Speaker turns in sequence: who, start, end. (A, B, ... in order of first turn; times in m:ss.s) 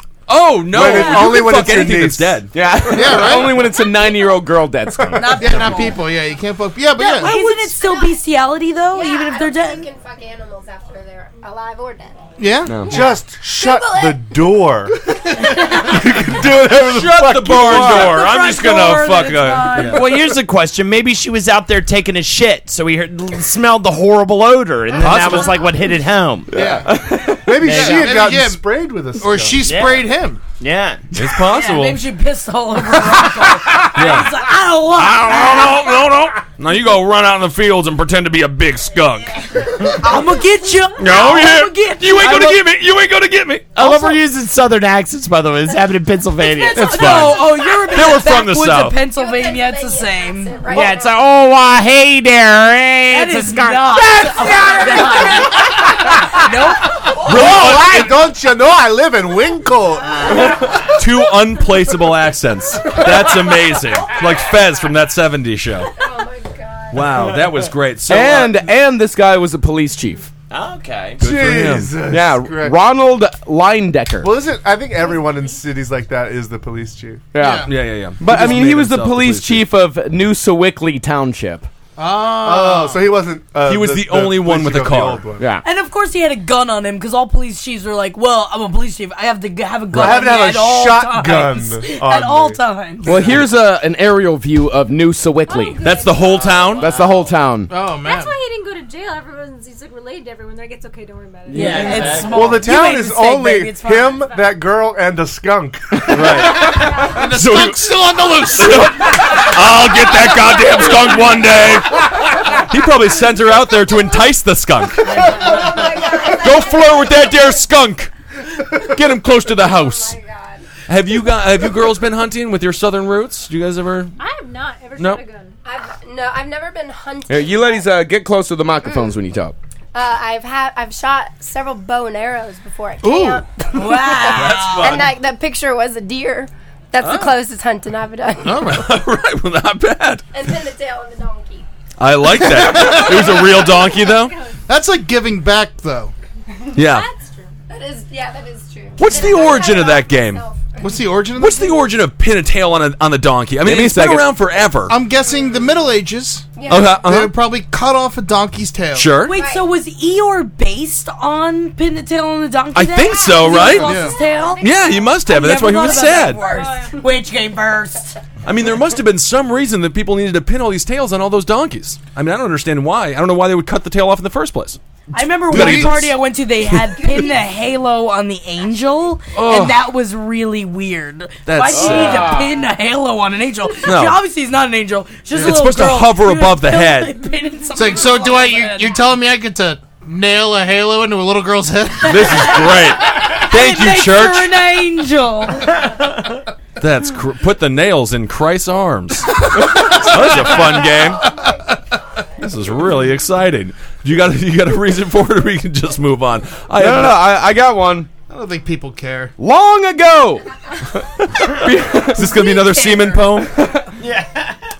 0:00.3-0:02.6 A
0:00.7-0:02.4 B
0:00.8-0:01.5 C
0:02.5-0:05.7 D
0:02.9-0:03.7 E
0:05.1-0:06.1 C
0:05.3-0:07.4 E
0:07.0-0:09.9 C
0:07.0-0:08.2 F
0:08.9-0:12.2 F
0:12.4-0:13.1 E
0:12.7-0:13.1 D
0:12.9-0:18.2 B
0:13.4-0:14.4 F
0:16.5-0:20.1 A
0:17.6-0:20.1 C
0:19.8-0:26.5 G
0:25.0-0:25.6 A
0:26.5-0:27.0 E
0:26.5-0:29.6 B
0:26.7-0:27.6 D
0:27.6-0:28.2 G
0:27.6-0:30.4 E
0:29.6-0:31.0 G
0:31.1-0:32.0 A
0:31.4-0:36.0 C
0:33.8-0:34.4 A
0:34.9-0:40.2 A
0:39.8-0:42.6 C
0:41.0-0:43.8 A
0:43.8-0:47.3 G
0:46.4-0:50.6 C
0:46.8-0:49.0 A
0:49.2-0:51.1 F
0:50.6-0:54.2 G
0:53.1-0:57.4 C
0:57.2-0:58.2 A
0:57.2-1:00.8 B
1:00.8-1:05.9 A
1:06.0-1:07.2 F
1:06.9-1:08.6 A
1:08.1-1:10.3 D
1:10.5-1:11.2 G
1:11.2-1:11.9 A
1:11.2-1:12.8 B
1:12.1-1:14.3 D
1:14.2-1:17.3 B
1:17.3-1:21.7 D
1:17.4-1:17.7 E
1:17.6-1:19.6 A
1:22.0-1:23.1 E
1:22.4-1:25.5 B
1:23.7-1:25.2 A
1:25.4-1:25.6 D
1:25.6-1:33.3 C
1:29.9-1:32.6 B
1:33.0-1:35.9 D
1:35.5-1:36.8 H
1:35.8-1:36.9 A
1:36.3-1:37.2 G
1:36.8-1:37.7 D
1:37.7-1:38.4 E
1:37.9-1:42.1 H
1:41.5-1:44.3 C
1:41.5-1:42.4 G
1:42.2-1:46.6 B
1:46.1-1:55.4 A
1:46.2-1:49.2 E
1:55.2-1:57.6 F
1:56.0-1:58.1 A
1:58.7-2:00.2 A
1:59.5-2:00.6 F
2:00.9-2:04.2 A
2:04.2-2:05.6 H
2:05.6-2:07.9 F
2:07.3-2:09.6 D
2:09.9-2:18.8 F
2:13.0-2:13.5 E
2:13.7-2:15.0 C
2:14.3-2:15.1 A
2:17.0-2:17.3 A
2:18.4-2:18.9 E
2:18.7-2:20.3 A
2:20.3-2:21.6 F
2:22.0-2:24.4 A
2:22.4-2:23.5 E
2:23.8-2:24.5 H
2:24.7-2:26.1 E
2:26.7-2:27.1 A
2:26.7-2:27.5 H
2:27.7-2:31.0 F
2:29.0-2:30.4 A
2:30.8-2:31.9 E
2:31.4-2:35.0 A
2:33.6-2:34.4 D
2:34.9-2:39.2 E
2:35.2-2:35.7 F
2:36.6-2:37.0 F
2:36.7-2:37.4 A
2:39.0-2:39.4 A
2:39.2-2:44.7 C
2:39.3-2:39.7 F
2:42.7-2:44.0 A
2:43.8-2:44.2 E
2:44.0-2:45.1 H
2:44.6-2:46.4 A
2:45.2-2:48.2 C
2:46.3-2:47.0 H
2:48.4-2:54.8 A
2:55.1-3:09.0 C
2:55.5-2:56.2 A
2:55.5-2:56.0 E
2:56.7-2:57.1 A
2:59.4-2:59.8 A
3:01.5-3:02.4 A
3:01.8-3:02.2 D
3:03.8-3:04.2 A
3:05.3-3:07.3 A
3:07.7-3:12.2 E
3:12.0-3:14.6 A
3:12.0-3:15.8 C
3:16.8-3:21.3 A
3:19.8-3:21.7 E
3:22.4-3:27.3 A
3:26.8-3:28.1 D
3:28.3-3:29.3 E
3:29.4-3:30.5 D
3:31.5-3:33.5 A
3:31.5-3:32.3 D
3:32.2-3:33.4 C
3:34.0-3:34.5 G